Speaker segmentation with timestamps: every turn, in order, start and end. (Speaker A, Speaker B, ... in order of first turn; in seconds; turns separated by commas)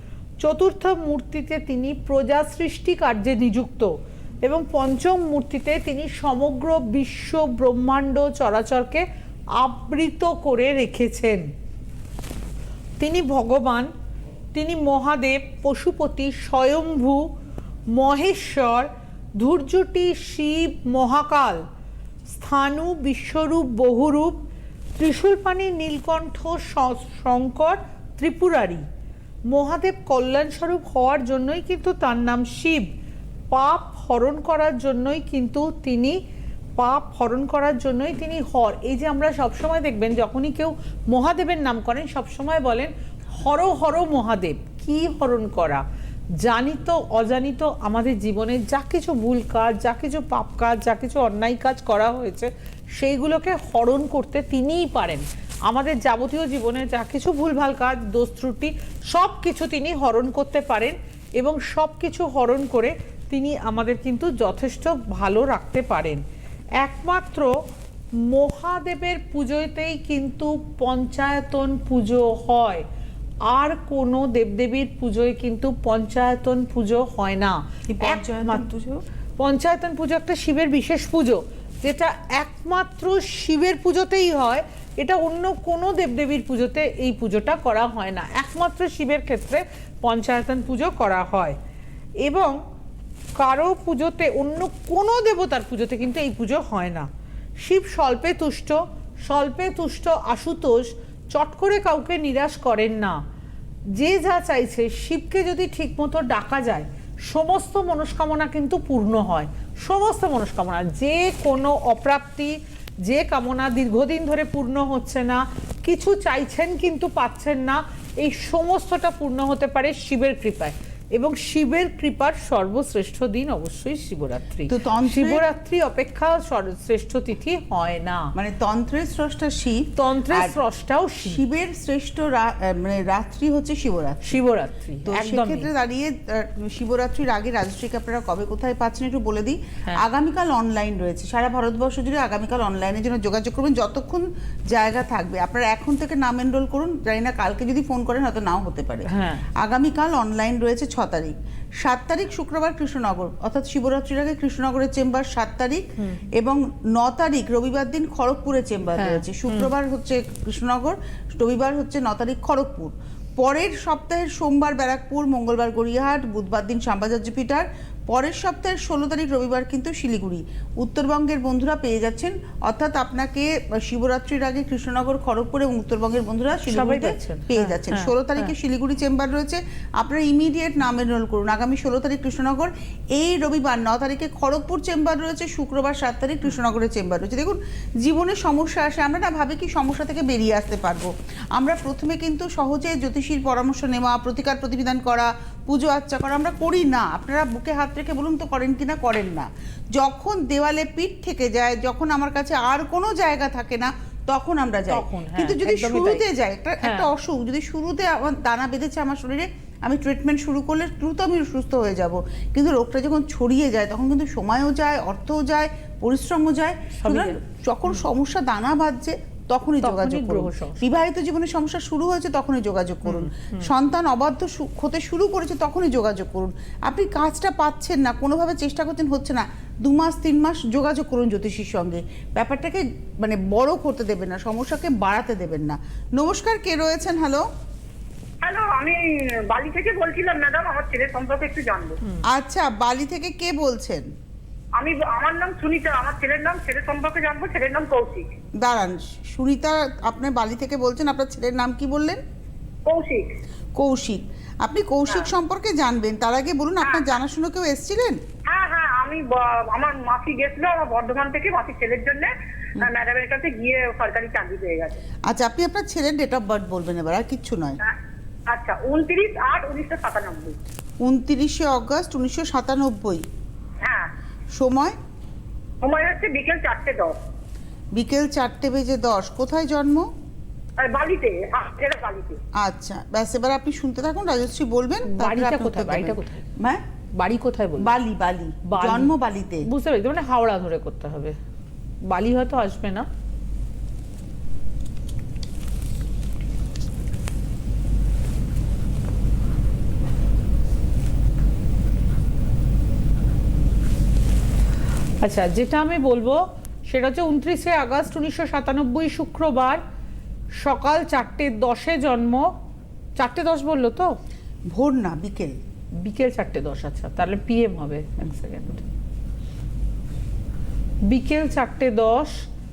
Speaker A: 0.4-3.9, Speaker A: 4.4-9.0, Speaker A: 9.6-11.4, Speaker A: 13.0-13.9, Speaker A: 14.5-17.3, Speaker A: 17.9-21.6, Speaker A: 22.3-24.4, Speaker A: 25.0-28.8, Speaker A: 29.5-32.9, Speaker A: 33.5-36.2, Speaker A: 36.8-45.8, Speaker A: 46.4-66.2, Speaker A: 66.8-67.5, Speaker A: 68.2-72.8, Speaker A: 73.5-78.7, Speaker B: 77.9-79.0, Speaker A: 79.4-91.5, Speaker A: 92.2-92.6, Speaker A: 93.4-97.1, Speaker A: 97.6-103.2, Speaker A: 103.9-128.3, Speaker B: 124.7-125.4, Speaker B: 128.3-130.5, Speaker A: 129.9-131.4, Speaker B: 131.2-134.4, Speaker A: 134.2-135.7, Speaker B: 135.0-237.5, Speaker A: 149.1-149.5, Speaker A: 156.0-156.2, Speaker A: 159.0-159.7, Speaker A: 176.7-178.5, Speaker A: 204.9-206.2, Speaker A: 206.8-207.1, Speaker A: 217.0-217.4, Speaker A: 219.8-220.8, Speaker A: 223.0-223.7, Speaker C: 238.4-242.0, Speaker B: 242.3-244.1, Speaker C: 244.8-248.3, Speaker B: 248.6-252.2, Speaker C: 252.8-253.3, Speaker B: 253.8-258.2, Speaker C: 258.4-265.0, Speaker B: 265.3-267.8, Speaker C: 268.5-270.6, Speaker B: 271.0-273.2, Speaker C: 273.8-274.1, Speaker B: 274.6-274.9, Speaker C: 275.8-277.2, Speaker B: 277.9-280.1, Speaker C: 280.8-282.4, Speaker B: 282.6-286.8, Speaker A: 285.1-286.4, Speaker A: 287.2-287.9, Speaker B: 287.8-289.6, Speaker A: 288.7-289.1, Speaker A: 289.6-291.4, Speaker A: 292.1-293.1, Speaker A: 305.2-309.8, Speaker A: 310.6-312.5, Speaker A: 313.2-314.1, Speaker B: 314.7-315.6, Speaker A: 316.0-318.8, Speaker A: 321.1-322.4